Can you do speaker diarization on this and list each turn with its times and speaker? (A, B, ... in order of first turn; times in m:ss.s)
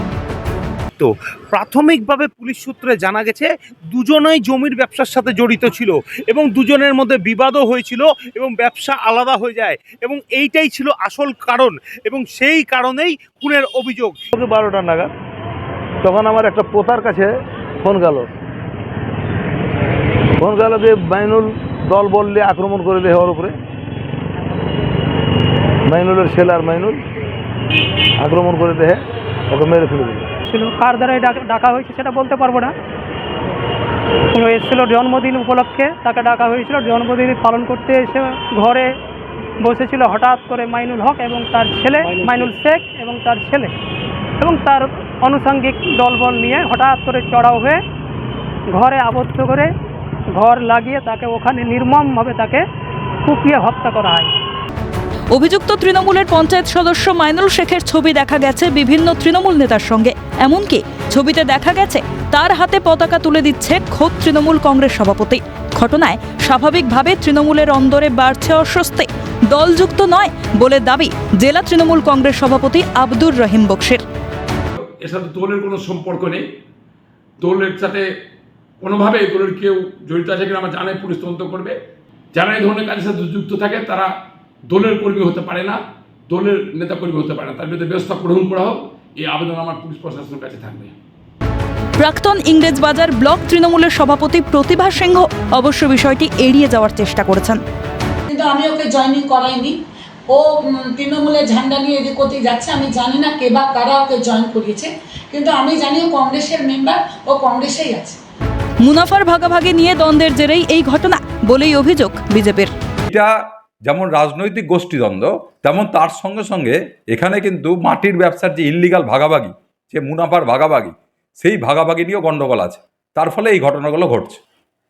0:01.0-0:14.2 A
0:14.3-0:15.1 B
0:16.0-0:18.3 B
0:20.4-0:23.6 B
0:25.8-0:27.0 B
0:28.2-0:30.3 B
0:30.5-0:32.7 C
0:34.3-0:38.9 C
0:39.6-0:43.7 C
0:44.4-0:47.8 C
0:48.8-0:49.7 C
0:50.4-0:52.6 C
0:53.3-0:54.3 C
0:55.3-1:14.0 D
1:14.8-1:16.4 E
1:17.4-1:18.0 E
1:18.8-1:21.8 E
1:22.4-1:24.1 E
1:24.7-1:31.0 E
1:32.0-1:37.6 D
1:38.3-1:39.8 F
1:40.3-1:48.2 F
1:48.8-1:52.7 D
1:53.9-2:04.4 G